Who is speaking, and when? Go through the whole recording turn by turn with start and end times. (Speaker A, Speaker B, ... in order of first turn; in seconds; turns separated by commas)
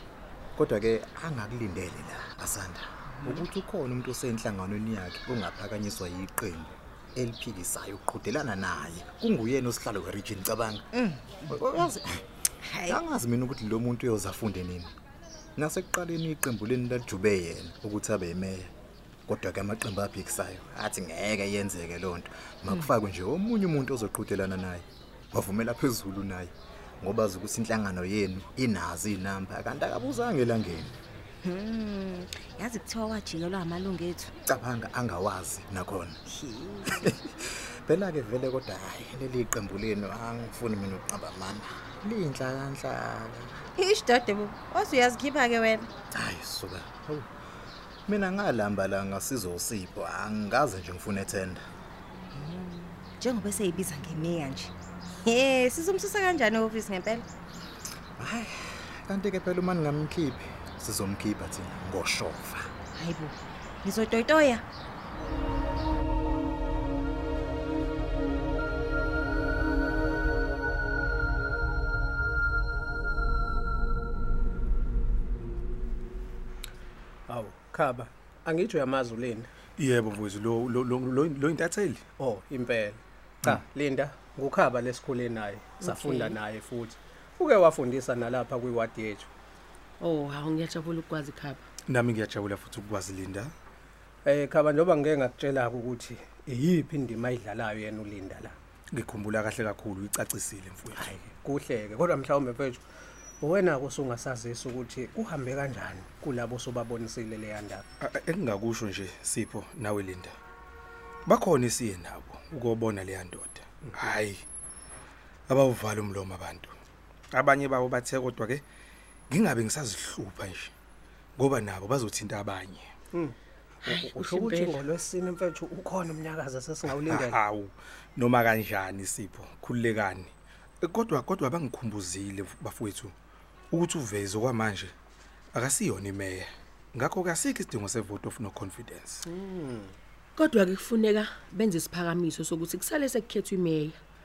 Speaker A: 0.6-10.9, Speaker B: 10.9-11.4, Speaker A: 11.5-12.1, Speaker B: 12.6-12.9, Speaker A: 12.8-14.9, Speaker A: 15.6-18.7, Speaker A: 19.3-30.9, Speaker B: 31.4-34.3, Speaker A: 34.5-36.2, Speaker B: 36.3-37.1, Speaker A: 36.9-43.6, Speaker B: 43.8-45.9, Speaker A: 46.1-47.3, Speaker A: 48.1-51.6, Speaker B: 52.3-57.3, Speaker A: 58.2-62.7, Speaker B: 62.9-64.6, Speaker C: 77.3-79.5, Speaker D: 79.8-82.0, Speaker C: 82.2-89.3, Speaker E: 85.8-86.4, Speaker E: 90.0-91.6, Speaker D: 91.9-93.5, Speaker C: 94.2-98.5, Speaker D: 98.9-101.2, Speaker C: 101.1-102.8, Speaker C: 103.4-107.8, Speaker D: 108.0-110.3, Speaker D: 111.3-114.4, Speaker D: 115.5-116.7, Speaker D: 117.3-118.6, Speaker D: 119.3-120.7, Speaker D: 121.4-122.8, Speaker C: 123.1-127.4, Speaker E: 124.1-124.8, Speaker D: 127.0-130.3, Speaker D: 130.8-133.1, Speaker D: 133.7-134.9, Speaker D: 135.5-139.2, Speaker C: 139.3-139.9, Speaker E: 140.4-144.0